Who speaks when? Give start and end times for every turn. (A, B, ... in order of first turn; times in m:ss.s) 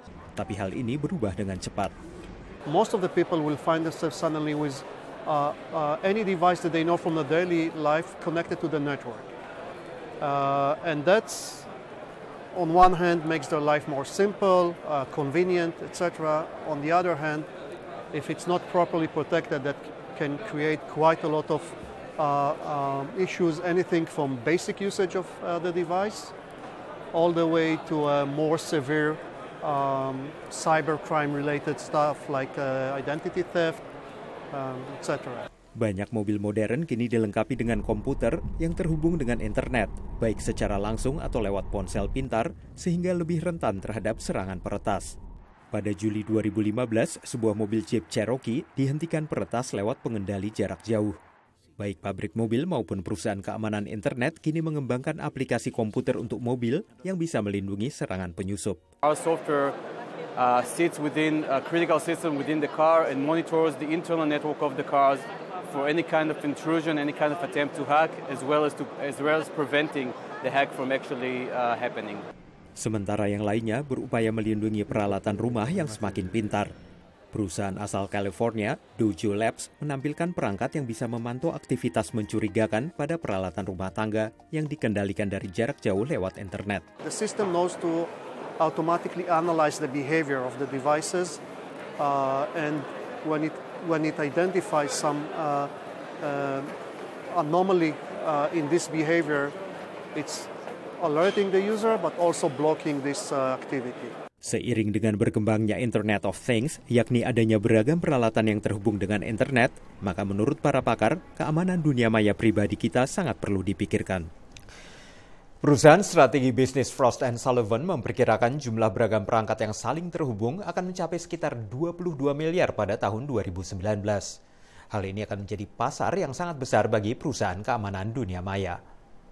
0:00.3-0:01.9 A
0:02.7-0:09.3 B
0:10.2-0:11.7 B
0:12.5-0:17.5 B
0:18.1-0:26.3 B
0:27.1-0:33.8 B
0:34.5-0:35.5 B
0:35.8-0:45.2 A
0:45.7-0:51.2 A
0:51.8-0:58.8 A
0:59.0-0:59.8 C
1:00.4-1:12.2 C
1:12.8-1:16.7 A
1:17.3-1:26.8 A
1:27.0-1:31.4 B
1:32.0-1:36.7 B
1:37.3-1:39.6 B
1:40.1-1:44.2 B
1:44.4-1:54.3 A
1:55.6-2:04.4 A
2:04.9-2:08.8 A